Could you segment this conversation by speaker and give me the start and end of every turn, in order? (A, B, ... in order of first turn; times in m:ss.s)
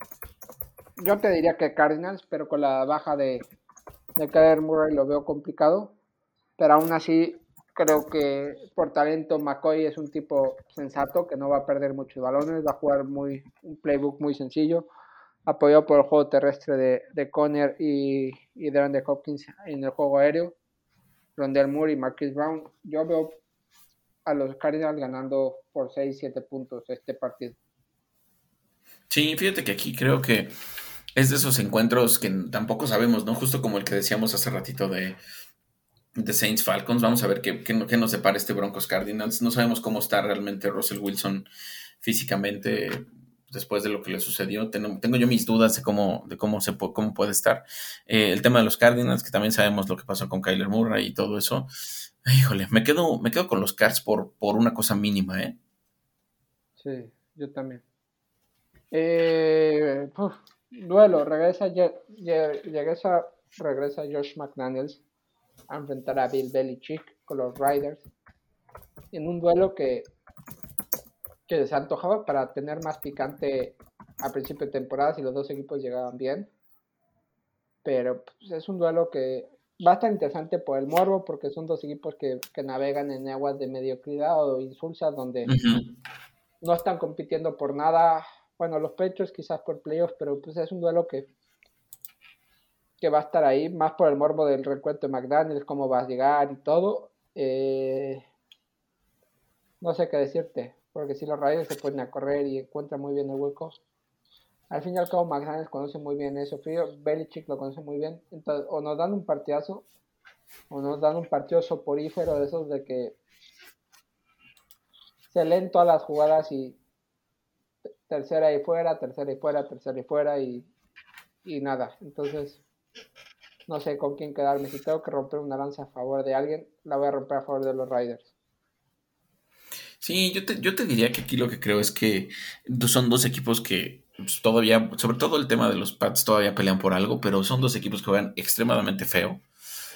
0:01.0-0:03.5 A
0:04.2-0:05.9 A
0:06.6-0:14.9 A
0:15.5-0:20.6 A
0:21.4-0:23.4 A
0:24.2-0:27.6 A
0:29.1-0:30.5 B
0:31.2-0:35.2 B
0:36.2-0:41.5 B
0:42.0-0:51.7 B
0:52.2-0:55.6 B
0:56.8-0:57.8 A
0:58.9-1:05.0 A
1:05.7-1:08.1 A
1:09.1-1:10.1 A
1:11.5-1:16.5 A
1:17.8-1:25.5 A
1:25.4-1:25.9 B
1:26.6-1:31.3 A
1:33.0-1:38.2 A
1:39.8-1:43.8 A
1:44.7-1:49.9 A
1:50.7-1:53.2 A
1:55.3-1:56.8 A
1:58.1-2:00.7 A
2:01.4-2:02.6 A
2:03.7-2:08.3 A
2:10.0-2:19.4 B